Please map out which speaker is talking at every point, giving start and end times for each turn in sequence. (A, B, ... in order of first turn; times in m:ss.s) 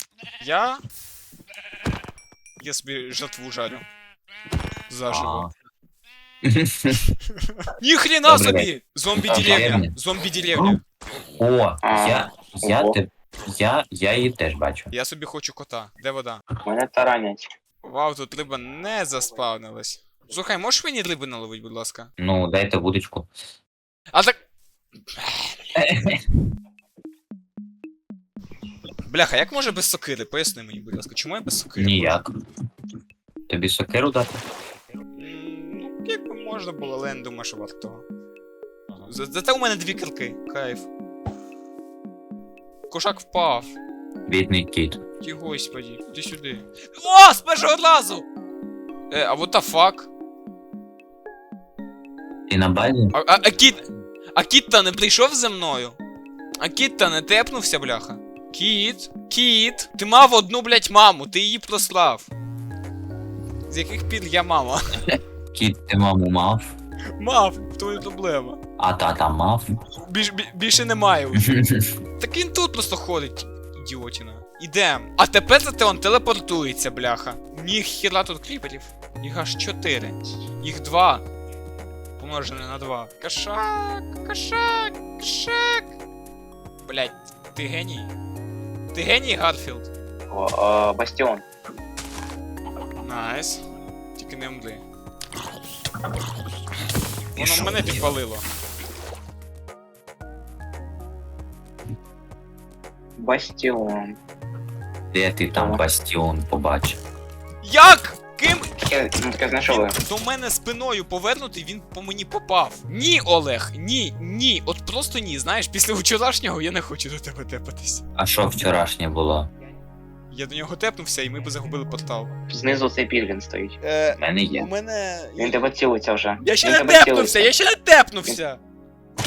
0:00.4-0:00.8 A
0:02.6-0:03.9 A
0:04.9-0:05.5 A
0:05.1-0:05.5 B
0:06.4-0:07.0 B
0:07.6-0:10.8 A
0:08.3-0:09.9 B
0:11.3-0:14.9 B
0:11.8-0:13.0 C
0:14.9-0:16.4 A
0:16.6-0:17.5 C
0:17.8-0:22.1 A
0:22.2-0:23.3 B
0:24.1-0:24.4 A
0:25.2-0:25.6 A
0:25.8-0:26.2 B
0:29.1-0:32.2 A
0:31.8-0:32.3 B
0:33.5-0:34.4 B
0:35.2-0:38.0 A
0:39.0-0:40.9 A
0:42.9-0:43.7 A
0:44.3-0:45.0 B
0:45.2-0:48.2 A
0:49.1-0:50.1 A
0:52.5-0:53.1 B
0:53.1-0:56.0 A
0:56.6-1:02.3 A
1:03.7-1:05.0 A
1:05.5-1:06.7 B
1:07.2-1:08.6 A
1:08.8-1:09.6 B
1:10.0-1:11.6 A
1:11.4-1:11.8 B
1:12.2-1:21.2 A
1:22.2-1:25.9 A
1:26.8-1:28.1 A
1:28.9-1:29.9 A
1:30.3-1:31.4 C
1:33.0-1:33.6 A
1:34.2-1:34.8 A
1:37.4-1:38.1 B
1:37.4-1:38.4 A
1:43.2-1:44.2 C
1:45.1-1:47.0 B
1:45.5-1:45.8 C
1:47.6-1:48.9 A
1:48.8-1:50.0 C
1:49.7-1:58.0 A
1:58.2-1:59.5 B
2:00.3-2:02.3 A
2:02.5-2:03.8 C
2:03.8-2:05.6 A
2:04.1-2:04.7 B
2:05.4-2:07.5 C
2:06.4-2:08.6 A